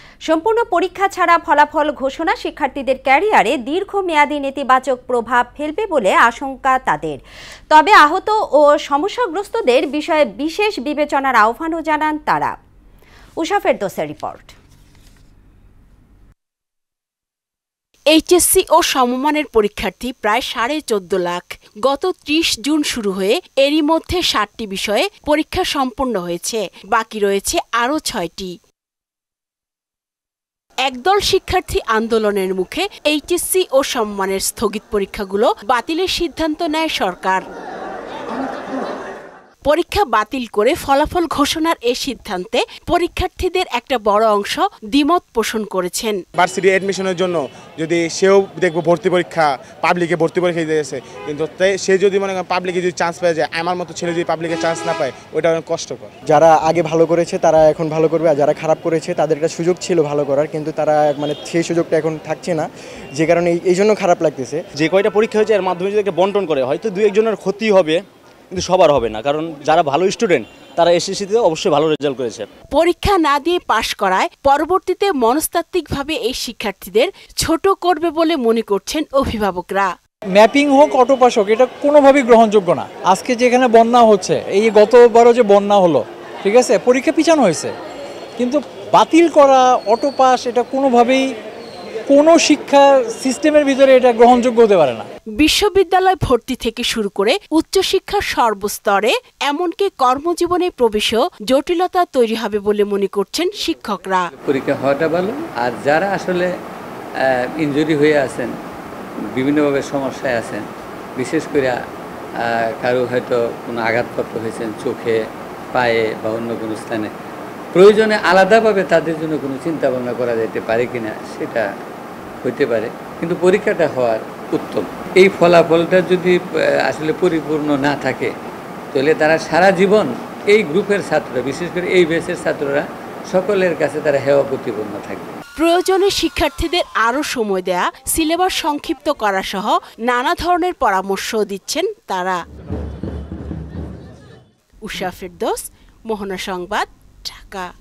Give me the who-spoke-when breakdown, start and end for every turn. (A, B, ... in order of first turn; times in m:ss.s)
0:00.2-0:12.5 A
0:13.4-0:14.5 A
0:18.1-0:28.5 B
0:30.8-0:37.4 B
0:39.7-0:46.2 B
0:46.4-0:56.1 C
0:56.2-1:04.6 D
1:04.8-1:08.0 E
1:08.5-1:12.5 E
1:12.7-1:19.9 B
1:20.4-1:27.7 F
1:28.4-1:31.3 F
1:32.1-1:35.1 F
1:35.4-1:44.2 B
1:44.4-1:46.5 G
1:47.6-1:48.5 G
1:49.4-1:50.6 G
1:51.2-1:51.7 G
1:52.4-1:55.2 G
1:55.7-1:57.1 G
1:57.7-2:01.6 G
2:02.4-2:08.3 G
2:08.9-2:15.3 G
2:15.6-2:22.4 B
2:24.8-2:27.7 B